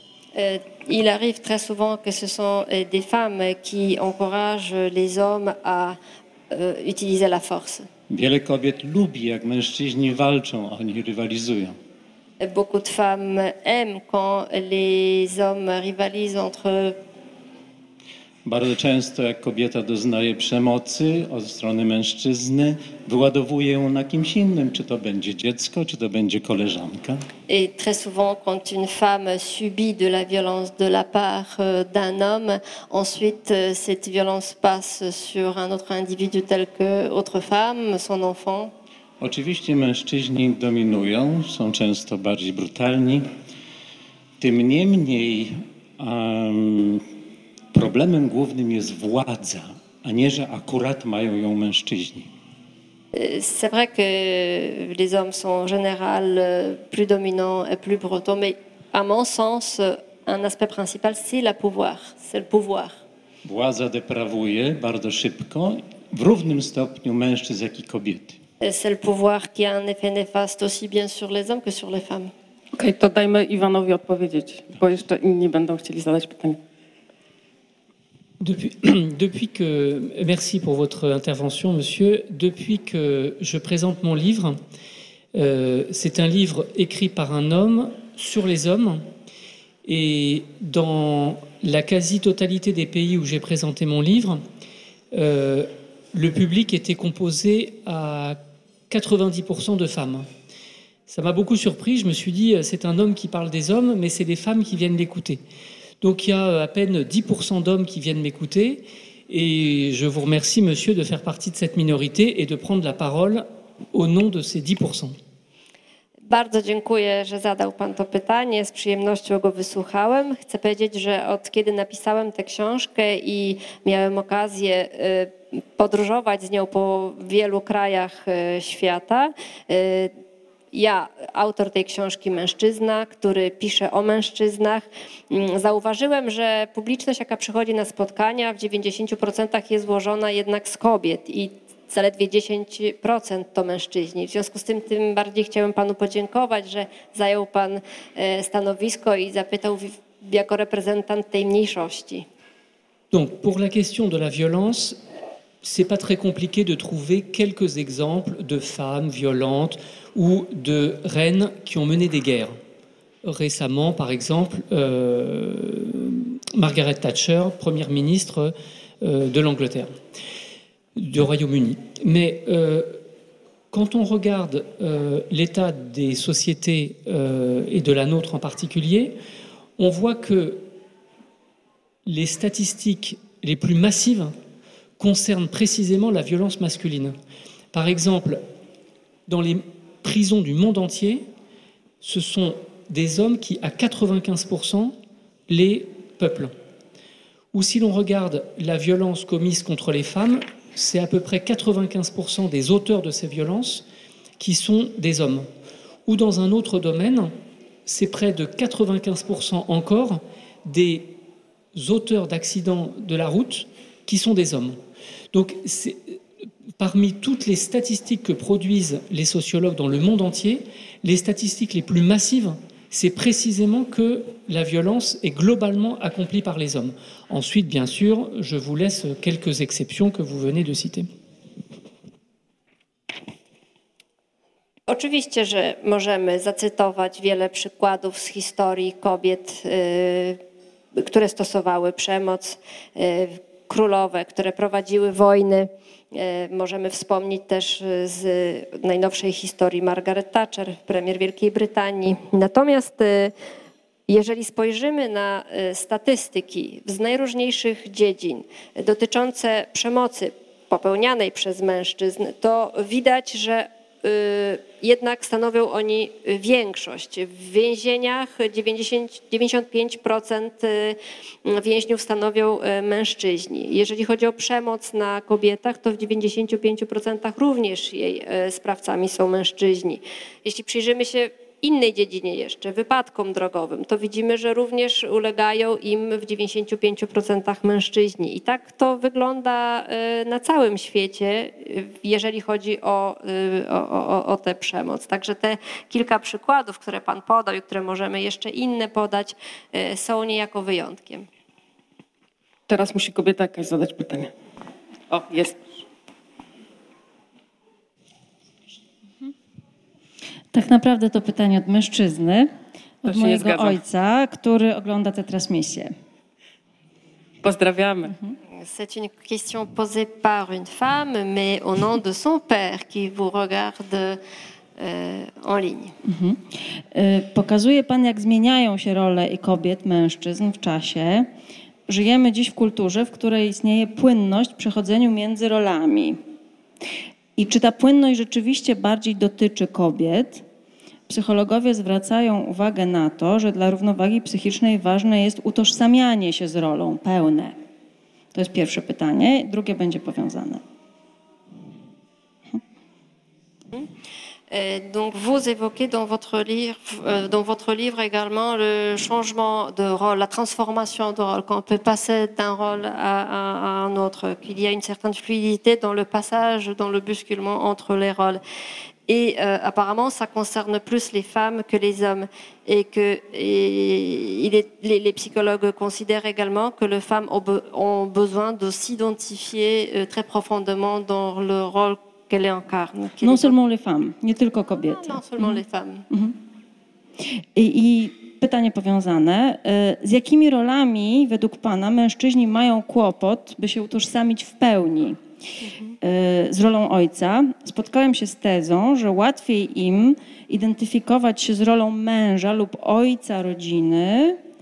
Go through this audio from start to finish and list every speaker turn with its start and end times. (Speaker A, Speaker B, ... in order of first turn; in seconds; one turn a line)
Speaker A: 0.3-6.0
Speaker A: 6.5-7.9
Speaker B: 8.1-11.8
Speaker A: 12.4-17.0
Speaker B: 18.4-27.2
Speaker A: 27.5-38.7
Speaker B: 39.2-43.3
Speaker B: 44.4-47.0
Speaker B: 47.7-52.3
Speaker A: 53.1-63.0
Speaker B: 63.4-68.4
Speaker A: 68.6-72.3
Speaker C: 72.7-76.6
Speaker D: 78.4-84.6
Speaker D: 85.3-89.0
Speaker D: 89.8-94.4
Speaker D: 95.1-98.4
Speaker D: 98.9-100.3
Speaker D: 101.1-105.4
Speaker D: 106.0-115.2
Speaker A: 116.2-130.1
Speaker A: 130.7-152.2
Speaker D: 153.1-155.0
Speaker D: 155.6-162.6
Speaker D: 163.2-169.9
Speaker D: 170.9-173.0
Speaker D: 173.7-179.2
Speaker D: 179.8-180.6
Speaker D: 182.1-184.3
Speaker D: 185.0-187.2
Speaker D: 187.7-188.4
Speaker D: 189.3-191.2
Speaker D: 192.0-194.9
Speaker D: 195.5-196.5
Speaker D: 197.5-203.8
Speaker D: 204.4-205.5
Speaker D: 206.1-207.3
Speaker D: 207.8-211.1
Speaker D: 211.7-214.8
Speaker D: 215.3-216.1
Speaker D: 216.8-231.1
Speaker A: 234.9-240.4
Speaker A: 240.9-253.3
Speaker A: 254.1-301.3
Speaker C: 302.7-304.3
Speaker C: 305.1-305.8
Speaker E: 310.5-312.5
Speaker E: 313.0-315.9
Speaker C: 313.1-313.8
Speaker C: 317.4-318.1
Speaker A: 318.5-324.2
Speaker A: 324.8-325.9
Speaker E: 326.0-331.3
Speaker E: 331.9-336.2
Speaker E: 337.4-340.4
Speaker E: 341.1-347.6
Speaker E: 348.3-350.6
Speaker A: 354.5-368.4
Speaker A: 369.1-383.6
Speaker E: 383.2-385.6
Speaker A: 384.8-386.1
Speaker E: 386.1-386.4
Speaker E: 387.5-395.2
Speaker A: 395.6-395.9
Speaker E: 396.0-404.4